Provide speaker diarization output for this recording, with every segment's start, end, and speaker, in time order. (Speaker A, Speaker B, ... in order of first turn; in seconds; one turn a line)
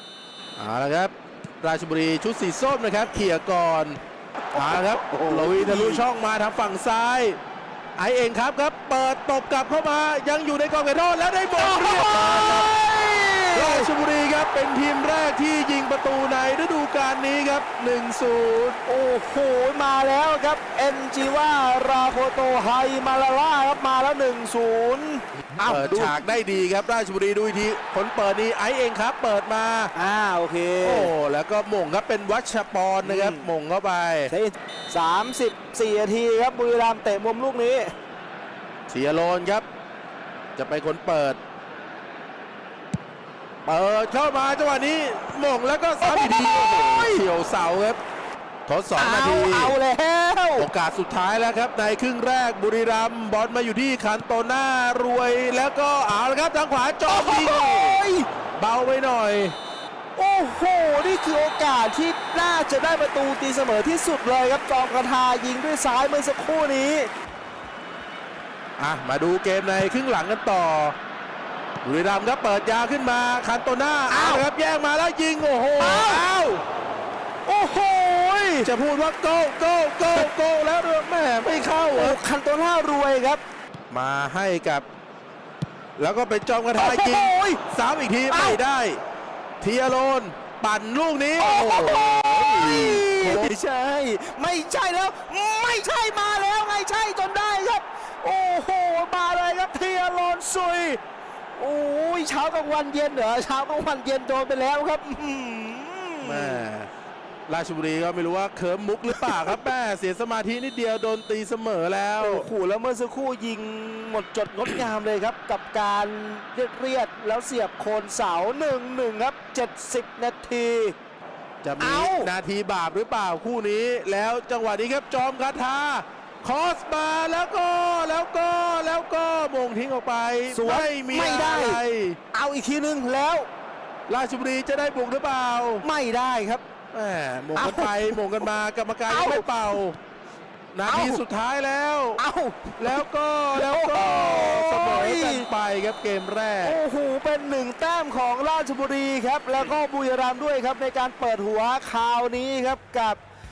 Speaker A: 0.6-4.0
Speaker B: 4.5-6.0
Speaker A: 4.5-7.4
Speaker A: 8.0-12.9
Speaker B: 11.6-13.9
Speaker A: 13.5-18.8
Speaker B: 18.9-26.2
Speaker A: 25.6-29.9
Speaker B: 29.9-31.1
Speaker A: 30.8-34.3
Speaker B: 33.0-33.5
Speaker B: 34.3-37.9
Speaker A: 38.9-39.6
Speaker A: 40.5-41.4
Speaker A: 43.6-48.0
Speaker B: 46.0-47.2
Speaker A: 48.7-49.7
Speaker B: 49.0-50.7
Speaker A: 50.6-58.0
Speaker B: 57.1-58.3
Speaker A: 58.5-59.5
Speaker B: 60.1-67.1
Speaker A: 68.8-71.0
Speaker A: 71.8-76.6
Speaker B: 74.1-74.4
Speaker B: 75.8-76.2
Speaker B: 77.5-78.7
Speaker A: 78.6-82.2
Speaker B: 82.0-83.4
Speaker A: 83.9-84.8
Speaker A: 86.0-89.0
Speaker B: 86.8-87.6
Speaker B: 88.3-88.6
Speaker A: 89.6-93.5
Speaker B: 91.4-101.0
Speaker B: 101.6-106.6
Speaker A: 106.2-106.9
Speaker A: 107.5-112.5
Speaker B: 109.1-109.5
Speaker B: 112.2-120.9
Speaker A: 121.6-132.2
Speaker B: 121.8-122.3
Speaker B: 130.5-131.8
Speaker B: 132.3-133.5
Speaker A: 134.1-135.8
Speaker B: 135.8-136.6
Speaker A: 136.9-140.0
Speaker B: 137.6-138.2
Speaker B: 139.1-139.6
Speaker A: 140.7-142.2
Speaker B: 140.9-141.2
Speaker B: 142.2-143.0
Speaker A: 142.8-146.8
Speaker B: 143.5-145.5
Speaker B: 146.6-153.2